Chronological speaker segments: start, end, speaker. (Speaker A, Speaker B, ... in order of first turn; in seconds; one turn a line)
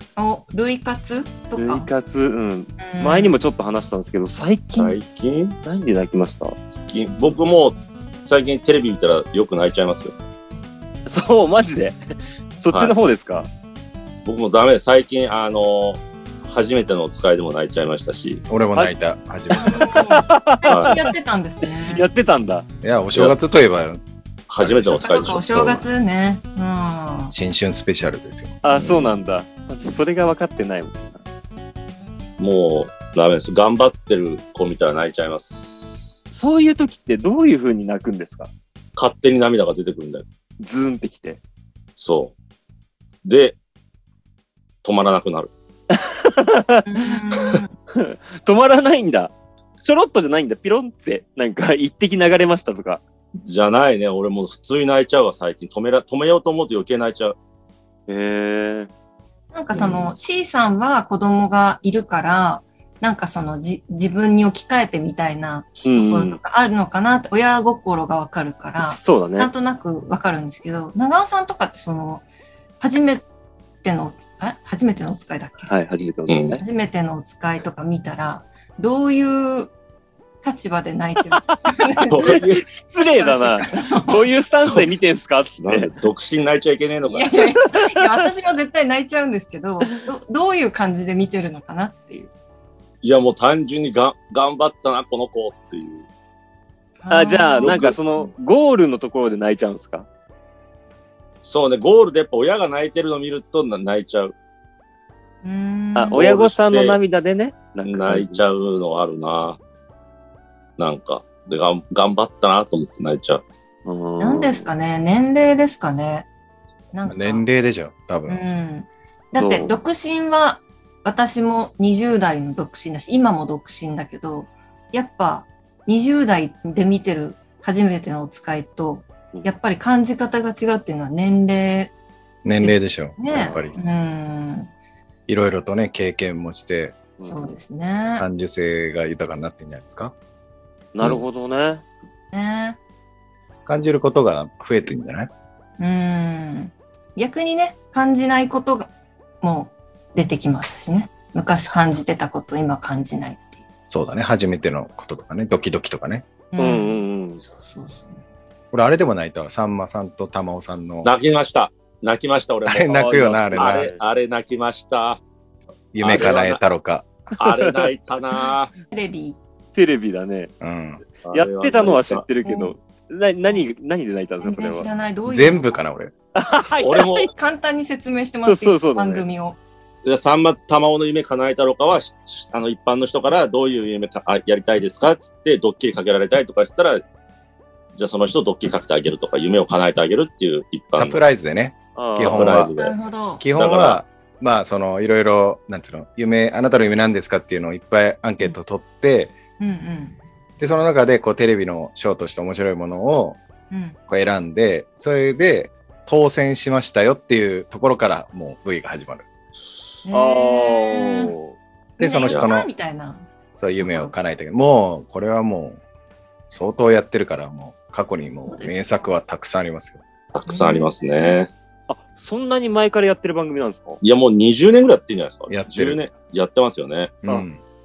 Speaker A: 0.2-1.9
Speaker B: 1.6-5.0
Speaker A: 2.8-3.4
Speaker C: 4.8-5.6
Speaker B: 5.6-6.6
Speaker C: 6.8-10.2
Speaker B: 11.1-12.0
Speaker B: 12.6-13.5
Speaker C: 14.2-18.4
Speaker D: 18.5-20.1
Speaker A: 19.6-22.1
Speaker B: 19.7-21.0
Speaker C: 20.7-21.0
Speaker B: 21.9-22.7
Speaker D: 22.8-24.0
Speaker C: 24.5-25.4
Speaker D: 24.6-25.9
Speaker A: 25.0-27.3
Speaker D: 27.3-28.6
Speaker B: 28.6-31.2
Speaker C: 28.7-29.1
Speaker C: 32.4-36.2
Speaker B: 36.3-38.5
Speaker C: 39.0-40.2
Speaker B: 40.6-41.4
Speaker C: 42.0-42.3
Speaker C: 43.2-43.6
Speaker C: 44.8-45.5
Speaker B: 45.9-53.0
Speaker A: 46.9-47.7
Speaker C: 53.5-57.4
Speaker B: 58.1-58.9
Speaker A: 59.5-72.2
Speaker C: 59.8-60.1
Speaker B: 65.8-66.4
Speaker B: 68.8-69.5
Speaker A: 72.8-73.2
Speaker A: 73.8-75.7
Speaker B: 75.7-76.6
Speaker C: 76.3-76.6
Speaker A: 76.6-79.7
Speaker A: 80.4-82.4
Speaker C: 82.1-82.6
Speaker B: 82.3-85.9
Speaker A: 83.2-84.3
Speaker C: 85.6-87.3
Speaker A: 87.0-92.3
Speaker B: 87.7-88.2
Speaker C: 93.0-96.1
Speaker A: 97.0-98.2
Speaker B: 97.1-100.1
Speaker C: 97.6-98.0
Speaker C: 101.4-104.3
Speaker A: 105.4-106.2
Speaker B: 106.0-108.4
Speaker C: 106.1-107.0
Speaker C: 107.8-109.6
Speaker C: 110.8-113.4
Speaker B: 113.8-114.7
Speaker A: 114.2-116.3
Speaker A: 116.9-117.5
Speaker D: 117.0-118.4
Speaker A: 118.3-131.9
Speaker B: 119.4-119.8
Speaker D: 132.4-133.8
Speaker A: 132.6-134.7
Speaker D: 135.3-137.0
Speaker B: 137.2-137.6
Speaker A: 137.2-138.3
Speaker D: 138.2-140.1
Speaker B: 140.9-141.8
Speaker A: 142.3-142.8
Speaker D: 143.7-145.3
Speaker A: 145.8-148.9
Speaker A: 149.4-153.6
Speaker D: 153.9-156.2
Speaker A: 156.5-158.2
Speaker B: 156.6-157.4
Speaker D: 158.7-161.1
Speaker C: 161.0-163.0
Speaker D: 162.7-163.9
Speaker B: 162.9-164.0
Speaker C: 163.5-165.2
Speaker D: 165.9-167.1
Speaker C: 166.0-166.6
Speaker C: 167.4-168.7
Speaker B: 167.4-167.9
Speaker A: 168.9-169.4
Speaker B: 169.8-170.5
Speaker D: 170.6-171.0
Speaker C: 171.2-172.2
Speaker B: 171.3-174.9
Speaker A: 172.4-172.7
Speaker A: 174.4-175.8
Speaker D: 175.3-176.1
Speaker B: 176.3-177.3
Speaker C: 176.8-177.3
Speaker A: 177.3-179.6
Speaker B: 178.4-179.2
Speaker C: 180.1-187.0
Speaker C: 187.9-191.2
Speaker D: 190.9-192.7
Speaker B: 192.0-192.6
Speaker C: 192.3-193.0
Speaker A: 192.8-193.4
Speaker D: 193.4-199.3
Speaker C: 193.6-194.0
Speaker A: 199.6-200.2
Speaker D: 200.6-203.4
Speaker A: 203.7-204.0
Speaker D: 204.1-209.2
Speaker A: 210.1-211.3
Speaker B: 210.1-211.6
Speaker A: 212.0-213.3
Speaker D: 212.0-212.7
Speaker D: 213.6-215.8
Speaker A: 213.8-214.1
Speaker D: 216.5-220.0
Speaker A: 218.5-219.2
Speaker C: 220.3-221.5
Speaker A: 220.5-221.3
Speaker B: 221.9-224.0
Speaker C: 224.0-227.2
Speaker D: 225.5-226.0
Speaker D: 227.2-227.6